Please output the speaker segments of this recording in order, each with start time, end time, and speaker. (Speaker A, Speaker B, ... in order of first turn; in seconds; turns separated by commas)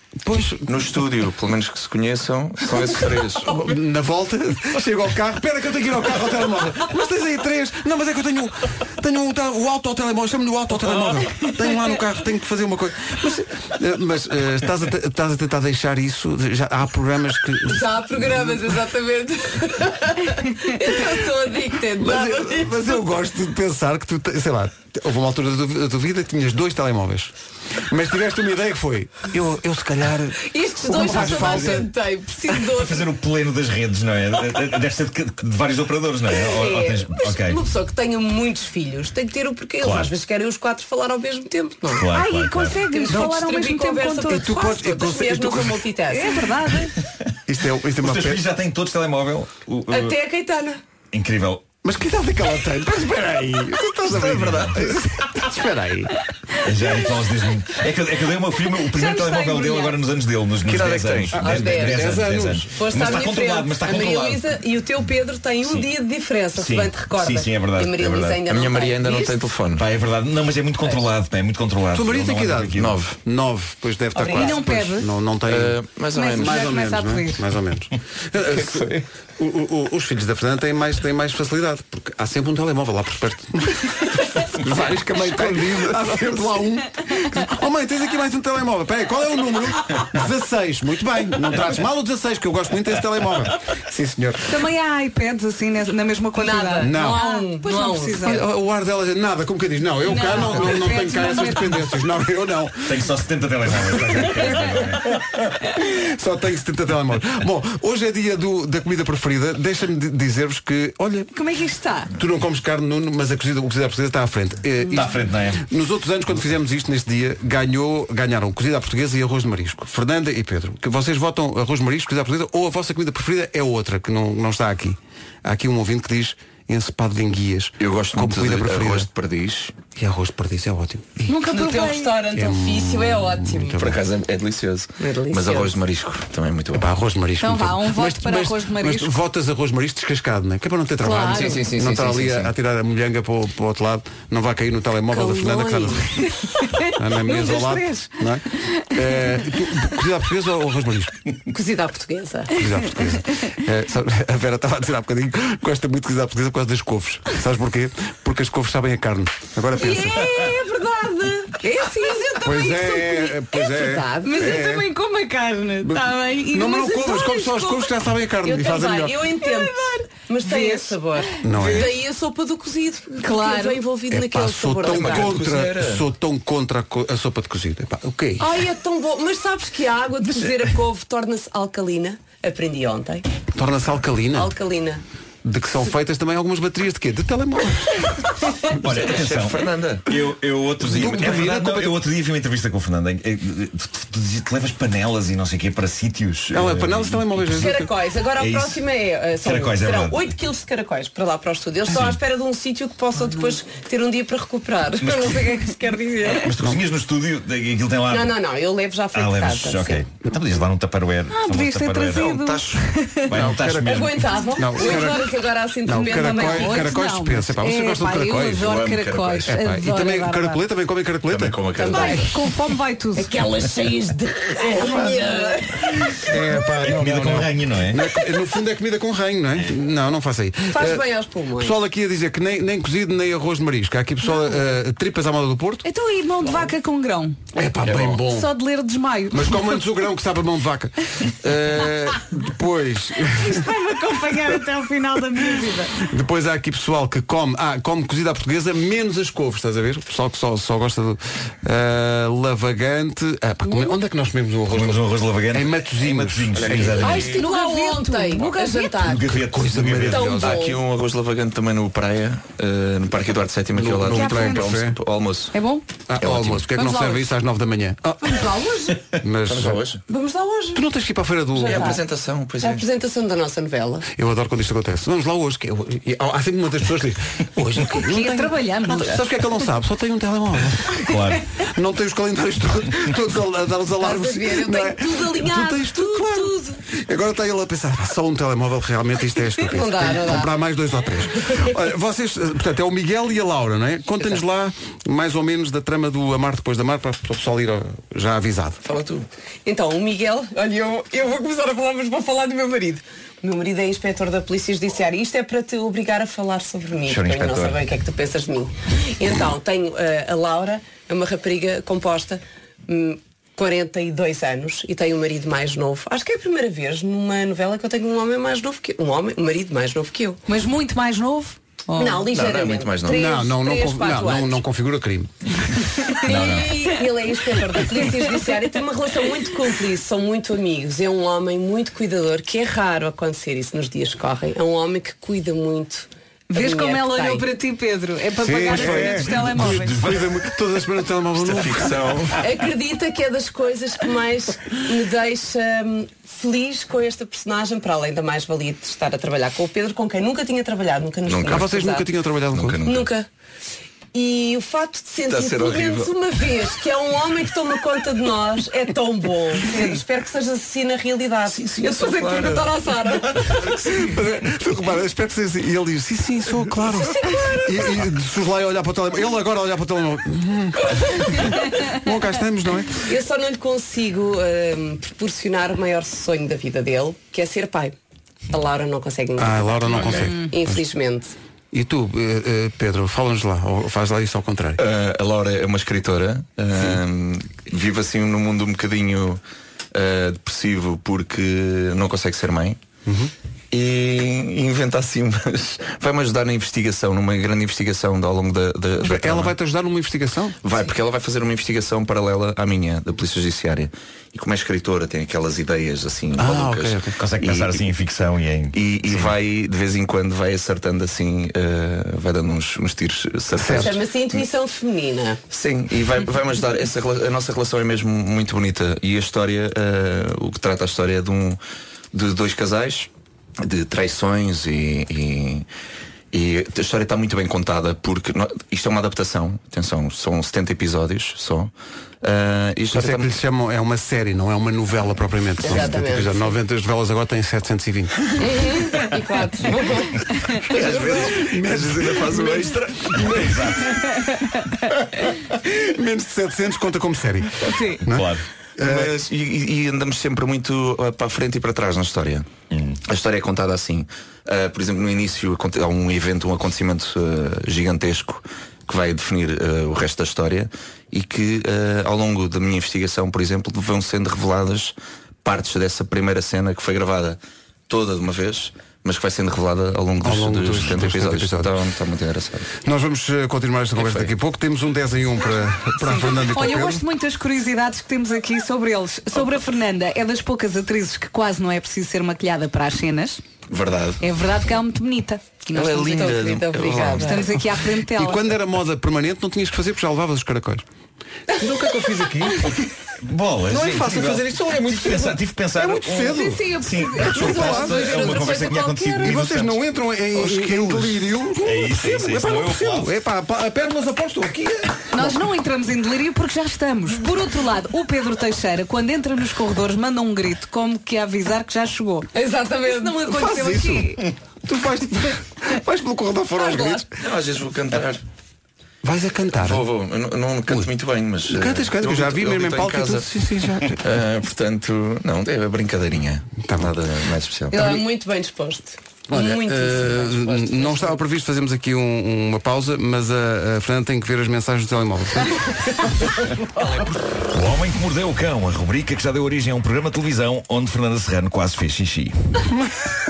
Speaker A: 0.2-0.7, Speaker B: 0.7-3.6, Speaker A: 3.4-17.8, Speaker C: 17.6-23.2, Speaker A: 22.0-27.3, Speaker A: 27.9-31.9, Speaker C: 30.4-33.1, Speaker D: 31.3-31.6, Speaker D: 32.7-37.6, Speaker C: 36.3-42.1, Speaker D: 39.8-40.1, Speaker D: 41.9-42.8, Speaker E: 42.1-44.7, Speaker C: 42.8-46.6, Speaker A: 43.1-43.4, Speaker A: 44.2-45.9, Speaker E: 46.1-47.0, Speaker A: 47.5-48.5, Speaker D: 48.0-50.1, Speaker C: 49.9-50.8, Speaker D: 51.1-51.7, Speaker A: 51.8-56.2, Speaker B: 54.1-54.6, Speaker D: 54.1-54.9, Speaker D: 56.6-64.5, Speaker C: 58.7-60.0, Speaker B: 60.6-61.5, Speaker A: 61.3-62.8, Speaker C: 61.4-62.2, Speaker C: 62.7-69.4, Speaker D: 66.6-68.4, Speaker B: 68.5-69.8, Speaker D: 69.7-73.0, Speaker A: 71.9-75.8, Speaker B: 72.8-73.2, Speaker C: 74.2-74.7, Speaker E: 74.3-75.1, Speaker B: 75.5-76.7, Speaker E: 76.1-77.4, Speaker A: 76.4-94.6, Speaker B: 78.4-79.0, Speaker E: 94.5-98.4, Speaker C: 96.3-98.4, Speaker A: 96.8-97.2, Speaker A: 98.2-103.0, Speaker E: 100.0-101.9, Speaker D: 102.8-105.2, Speaker A: 104.0-104.6, Speaker A: 105.6-111.3, Speaker E: 111.3-112.1, Speaker A: 112.2-129.1, Speaker D: 114.8-115.7, Speaker B: 127.8-129.7, Speaker A: 130.0-131.3, Speaker E: 131.3-132.2, Speaker C: 131.5-133.9, Speaker A: 132.3-134.0, Speaker B: 133.8-136.9, Speaker C: 135.0-135.8, Speaker A: 136.7-146.3, Speaker E: 137.4-139.1, Speaker E: 141.1-141.6, Speaker C: 141.1-141.4, Speaker B: 141.2-142.5, Speaker C: 145.1-146.3, Speaker E: 146.7-148.1, Speaker A: 146.8-151.2, Speaker C: 151.5-152.6, Speaker A: 152.6-160.3, Speaker C: 159.8-164.7, Speaker A: 162.4-164.9, Speaker E: 164.2-167.7, Speaker A: 165.8-169.3, Speaker C: 167.4-167.8, Speaker C: 168.3-175.4, Speaker E: 169.4-171.9, Speaker A: 171.4-171.9, Speaker E: 173.2-173.8, Speaker A: 174.1-178.5, Speaker B: 174.8-176.1, Speaker C: 178.4-183.3, Speaker A: 183.6-184.6, Speaker C: 184.3-185.0, Speaker A: 185.4-188.2, Speaker D: 188.8-197.8, Speaker B: 188.8-190.1, Speaker A: 190.8-192.0, Speaker A: 196.5-197.9, Speaker C: 197.5-206.6, Speaker D: 198.4-198.8, Speaker D: 199.4-200.3, Speaker D: 201.9-202.2, Speaker D: 205.0-205.5, Speaker D: 206.3-208.4, Speaker C: 208.1-210.0, Speaker D: 209.1-212.5, Speaker E: 211.3-213.3, Speaker B: 212.3-212.8, Speaker D: 213.3-214.5, Speaker A: 213.3-218.7, Speaker C: 213.8-217.0, Speaker E: 216.0-220.6, Speaker B: 218.6-219.5, Speaker A: 219.5-222.3, Speaker B: 221.3-222.3, Speaker C: 221.8-222.3, Speaker E: 221.9-223.4, Speaker C: 223.1-226.2, Speaker A: 226.2-231.0, Speaker D: 226.8-228.1, Speaker C: 230.7-231.8, Speaker A: 231.6-235.8, Speaker E: 235.8-237.4, Speaker A: 237.5-238.5, Speaker B: 237.9-238.2, Speaker E: 238.1-239.8, Speaker A: 239.3-243.7, Speaker E: 243.3-245.9, Speaker A: 246.0-257.3, Speaker E: 253.7-254.0, Speaker D: 254.7-257.3, Speaker B: 256.6-257.3, Speaker C: 256.9-259.5, Speaker E: 257.1-259.0, Speaker D: 259.0-260.4, Speaker A: 259.4-260.5, Speaker C: 260.1-260.8, Speaker B: 260.4-265.6, Speaker A: 263.7-265.0, Speaker E: 264.0-264.7, Speaker E: 265.5-265.9, Speaker A: 266.1-268.4, Speaker B: 266.2-266.8, Speaker C: 266.8-267.2, Speaker C: 268.2-269.1, Speaker A: 269.2-269.9, Speaker B: 269.5-270.0, Speaker C: 270.1-270.9, Speaker A: 270.7-271.9, Speaker C: 271.5-272.1, Speaker B: 271.6-272.8, Speaker C: 272.6-274.1, Speaker A: 274.1-298.8, Speaker E: 277.9-279.3, Speaker D: 281.0-281.4, Speaker C: 284.0-286.8, Speaker C: 289.6-290.5, Speaker C: 291.4-291.7, Speaker B: 298.8-299.3, Speaker C: 299.6-320.4, Speaker D: 307.1-307.8, Speaker E: 320.5-322.3, Speaker C: 322.0-324.6, Speaker B: 322.3-323.3, Speaker A: 323.1-325.8, Speaker C: 326.2-337.5, Speaker B: 326.3-326.6, Speaker E: 336.5-340.0, Speaker A: 338.4-342.3, Speaker D: 338.7-340.4, Speaker B: 341.4-342.4, Speaker C: 342.4-352.1, Speaker B: 351.3-351.7, Speaker A: 351.5-352.8, Speaker B: 352.5-353.1, Speaker C: 352.8-353.3, Speaker C: 354.1-364.1, Speaker B: 355.3-356.1, Speaker B: 361.5-363.1, Speaker A: 363.6-373.1, Speaker C: 366.8-368.1, Speaker C: 371.0-371.5, Speaker C: 373.0-378.0, Speaker C: 378.5-381.3, Speaker A: 379.4-380.8, Speaker E: 379.9-380.5, Speaker A: 381.7-384.8, Speaker B: 384.8-389.4, Speaker B: 389.9-392.8, Speaker A: 393.1-393.3, Speaker B: 393.7-399.6, Speaker A: 399.0-400.6, Speaker B: 400.6-407.8, Speaker A: 406.4-407.2, Speaker D: 407.2-409.3, Speaker B: 408.7-414.4, Speaker A: 413.6-413.9, Speaker C: 413.7-415.4, Speaker B: 415.5-421.6, Speaker B: 422.1-423.1, Speaker B: 423.6-425.7, Speaker B: 426.3-431.7, Speaker B: 432.2-433.4, Speaker A: 432.9-438.4, Speaker C: 435.6-436.5, Speaker C: 438.4-441.5, Speaker A: 440.7-444.1, Speaker B: 440.7-443.1, Speaker D: 443.3-443.9, Speaker A: 445.6-449.1, Speaker E: 447.6-448.0, Speaker D: 448.1-448.4, Speaker B: 448.8-452.5, Speaker D: 452.7-453.0, Speaker B: 453.1-472.7, Speaker A: 470.2-471.8, Speaker A: 472.8-477.0, Speaker B: 474.0-474.3, Speaker E: 476.0-483.4, Speaker B: 483.7-484.2, Speaker E: 484.2-488.5, Speaker B: 485.7-487.4, Speaker C: 486.0-487.6, Speaker A: 486.8-487.3, Speaker A: 488.1-490.8, Speaker C: 491.5-492.2, Speaker A: 491.5-492.9, Speaker D: 493.2-503.1, Speaker A: 493.7-498.4, Speaker E: 496.3-498.5, Speaker C: 497.6-499.4, Speaker A: 499.2-505.4, Speaker E: 505.1-512.3, Speaker C: 512.3-514.1, Speaker E: 512.9-514.2, Speaker A: 513.3-517.1, Speaker C: 516.5-517.1, Speaker B: 517.1-518.2, Speaker A: 519.0-519.9, Speaker B: 519.5-523.3, Speaker A: 521.5-524.0, Speaker B: 524.0-527.8, Speaker A: 526.6-526.9, Speaker C: 527.7-531.2, Speaker A: 529.3-535.8, Speaker D: 537.5-542.3, Speaker A: 542.7-543.0